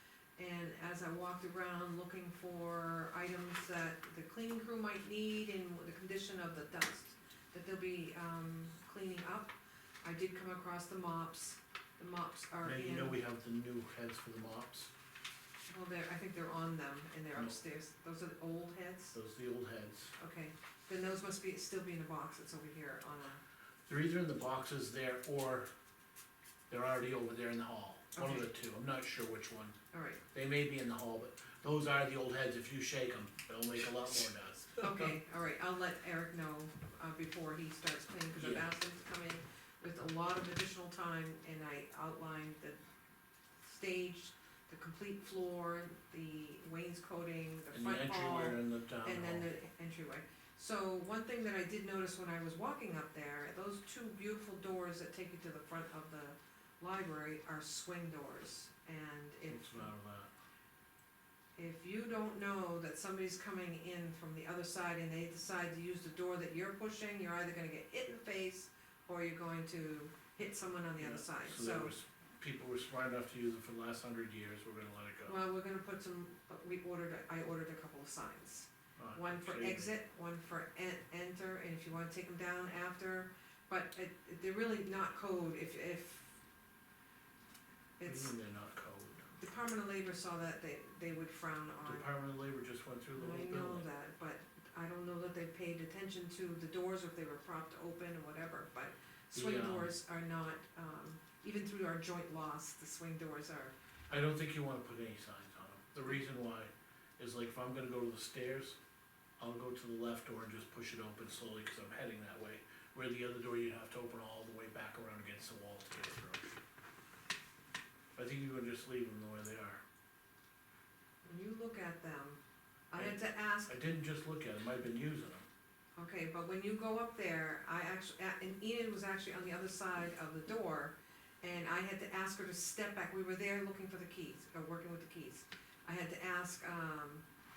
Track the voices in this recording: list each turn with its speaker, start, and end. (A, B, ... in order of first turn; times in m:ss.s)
0:00.4-0:13.2 A
0:12.6-0:14.9 B
0:15.7-0:19.2 A
0:19.1-0:20.1 B
0:20.2-0:23.4 A
0:23.9-0:25.7 B
0:26.7-0:29.8 B
0:28.2-0:28.5 A
0:29.9-0:30.2 A
0:30.3-0:35.1 B
0:34.8-0:42.8 A
0:38.4-0:38.7 B
0:43.6-0:59.9 A
0:47.7-0:49.5 B
0:59.5-1:00.3 B
1:01.6-1:11.9 A
1:11.0-1:15.4 B
1:15.3-1:26.4 A
1:19.0-1:19.9 B
1:28.0-1:28.3 A
1:28.0-1:29.2 B
1:29.4-1:32.1 A
1:31.8-1:33.9 B
1:33.1-1:43.7 A
1:39.3-1:39.9 B
1:44.1-1:48.8 B
1:49.4-1:56.4 B
1:58.2-1:59.8 B
2:01.2-2:02.4 A
2:02.9-2:03.8 A
2:03.0-2:05.4 B
2:06.0-2:17.2 A